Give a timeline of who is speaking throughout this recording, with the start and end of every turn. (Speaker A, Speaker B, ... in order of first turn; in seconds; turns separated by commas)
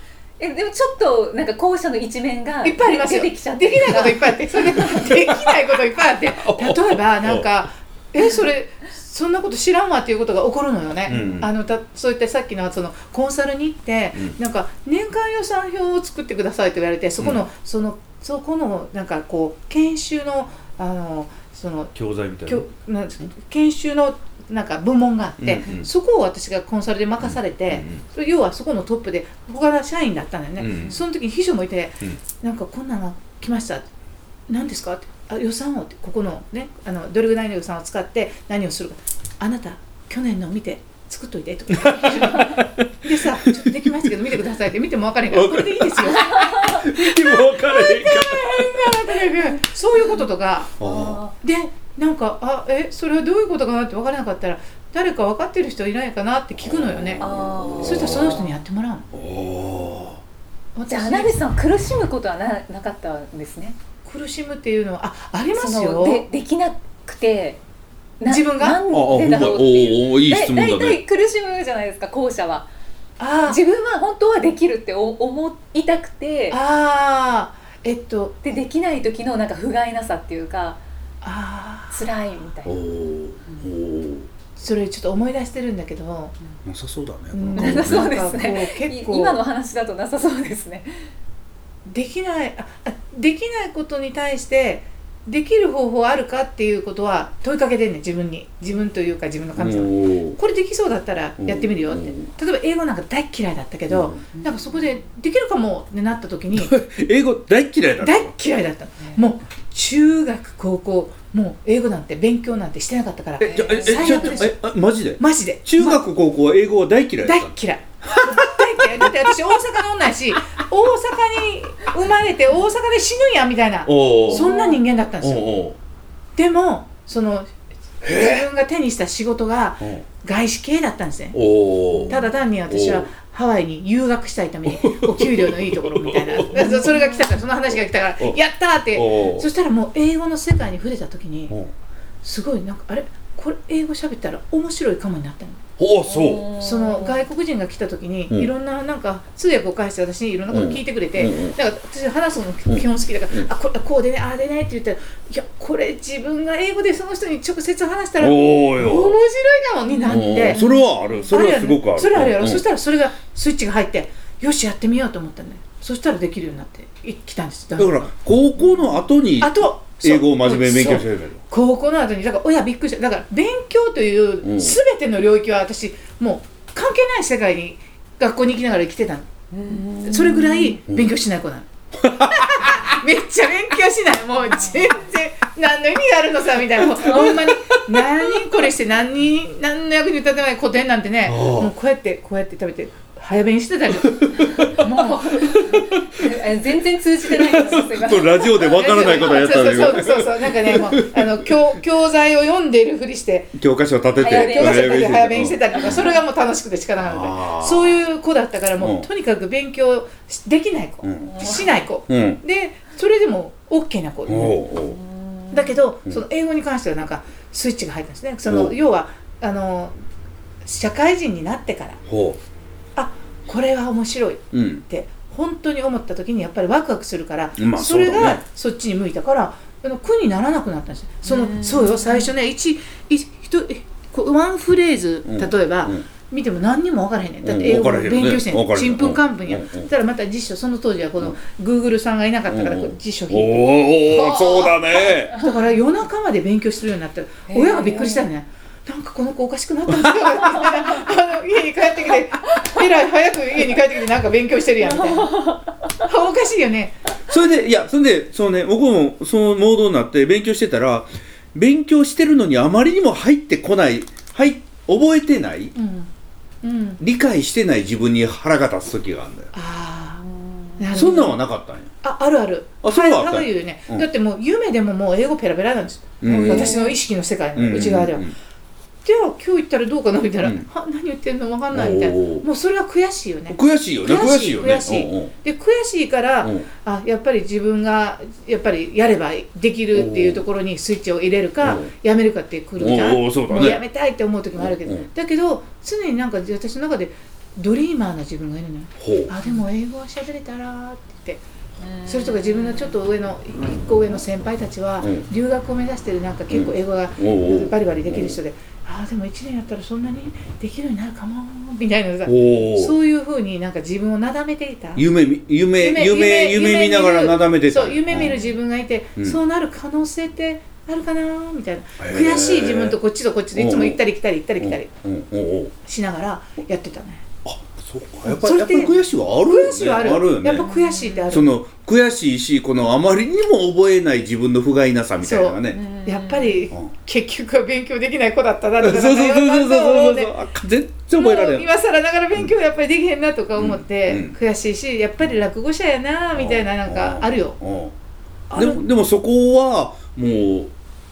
Speaker A: 0.4-5.3, Speaker B: 2.6-21.9, Speaker C: 6.4-7.5, Speaker C: 11.1-11.5, Speaker C: 21.9-22.6, Speaker B: 22.5-33.9, Speaker C: 25.4-25.9, Speaker C: 27.2-28.0, Speaker C: 30.6-31.0, Speaker B: 34.5-50.7, Speaker C: 41.7-44.1, Speaker C: 45.3-49.2, Speaker A: 46.4-46.8, Speaker C: 50.8-51.2, Speaker A: 50.8-51.3, Speaker B: 51.4-57.2, Speaker C: 56.6-58.4, Speaker A: 57.2-58.5, Speaker B: 57.8-59.1, Speaker C: 59.1-60.2, Speaker B: 60.8-61.3, Speaker A: 60.9-63.8, Speaker B: 64.0-66.2, Speaker A: 65.5-67.6, Speaker A: 68.2-72.7, Speaker B: 68.3-68.8, Speaker C: 68.9-71.0, Speaker B: 73.2-73.6, Speaker A: 73.5-76.6, Speaker B: 76.5-78.3, Speaker A: 78.4-80.8, Speaker B: 81.2-82.0, Speaker A: 81.9-82.8, Speaker C: 82.7-84.3, Speaker B: 84.6-86.3, Speaker C: 86.7-88.2, Speaker B: 87.3-89.4, Speaker A: 87.6-91.1, Speaker B: 91.9-106.8, Speaker C: 99.6-100.4, Speaker C: 101.4-102.3, Speaker C: 103.9-104.2, Speaker C: 106.5-108.3, Speaker B: 108.0-114.6, Speaker C: 113.4-119.3, Speaker A: 113.5-114.4, Speaker B: 115.2-116.0, Speaker B: 117.2-125.6, Speaker C: 123.9-124.5, Speaker A: 124.3-124.8, Speaker C: 125.2-125.8, Speaker B: 126.4-127.5, Speaker C: 128.0-128.5, Speaker B: 128.0-131.4, Speaker C: 131.3-132.2, Speaker A: 131.9-132.3, Speaker B: 132.1-141.6, Speaker C: 132.7-133.1, Speaker C: 134.7-136.8, Speaker A: 136.6-137.3, Speaker C: 138.9-139.5, Speaker B: 142.2-145.6, Speaker C: 145.8-146.5, Speaker A: 146.1-147.2, Speaker B: 146.6-160.6, Speaker C: 150.5-151.6, Speaker C: 152.7-153.4, Speaker C: 158.2-159.2, Speaker A: 159.9-161.3, Speaker C: 160.1-162.6, Speaker B: 161.3-168.1, Speaker C: 167.8-171.4, Speaker B: 169.4-179.3, Speaker C: 174.4-174.8, Speaker A: 179.5-180.8, Speaker B: 180.0-195.5, Speaker C: 182.0-182.9, Speaker A: 184.6-184.9, Speaker A: 187.0-187.8, Speaker C: 191.3-191.7, Speaker A: 194.5-200.0, Speaker C: 195.5-196.3, Speaker C: 197.2-201.5, Speaker B: 198.6-203.6, Speaker C: 203.6-205.6, Speaker A: 204.2-206.2, Speaker B: 204.2-214.7, Speaker C: 207.0-208.0, Speaker C: 208.8-209.1, Speaker C: 211.0-211.3, Speaker A: 211.3-211.9, Speaker C: 212.1-212.4, Speaker C: 214.3-215.0, Speaker A: 214.8-215.8, Speaker B: 215.5-219.9, Speaker C: 218.5-218.7, Speaker B: 220.6-222.0, Speaker C: 222.1-222.4, Speaker B: 223.0-255.4, Speaker C: 224.5-224.8, Speaker C: 227.6-228.4, Speaker A: 231.2-232.3, Speaker C: 235.3-236.1, Speaker C: 237.4-239.9, Speaker C: 242.5-245.4, Speaker A: 247.5-248.3, Speaker C: 249.9-250.7, Speaker A: 254.9-255.7, Speaker B: 256.0-257.0, Speaker C: 257.3-265.7, Speaker B: 265.8-266.1, Speaker B: 266.6-267.0, Speaker C: 267.0-269.5, Speaker B: 269.5-270.2, Speaker A: 270.2-270.8, Speaker B: 270.8-271.4, Speaker C: 270.9-271.9, Speaker B: 272.0-278.3, Speaker C: 272.8-274.1, Speaker C: 276.2-276.8, Speaker A: 276.2-277.0, Speaker C: 277.6-278.3, Speaker B: 279.1-301.4, Speaker C: 280.4-280.7, Speaker C: 281.7-282.4, Speaker C: 283.5-285.3, Speaker C: 286.4-286.7, Speaker C: 289.9-290.4, Speaker C: 291.6-291.9, Speaker C: 292.8-293.8, Speaker C: 294.6-295.1, Speaker C: 299.0-299.3, Speaker A: 301.8-302.9, Speaker B: 302.1-315.1, Speaker C: 305.0-305.3, Speaker C: 306.5-308.4, Speaker C: 312.2-313.0, Speaker C: 315.0-318.4, Speaker B: 315.8-324.9, Speaker A: 318.2-318.5, Speaker C: 322.0-323.0, Speaker C: 323.5-324.0, Speaker C: 324.6-325.7, Speaker B: 325.9-327.2, Speaker C: 327.4-330.7, Speaker B: 328.3-331.6, Speaker A: 330.6-331.3, Speaker C: 331.3-335.8, Speaker B: 335.2-340.3, Speaker A: 335.7-336.6, Speaker C: 338.8-341.7, Speaker B: 341.1-347.6, Speaker C: 343.6-344.4, Speaker C: 346.4-347.9, Speaker B: 348.5-348.8, Speaker C: 348.6-350.7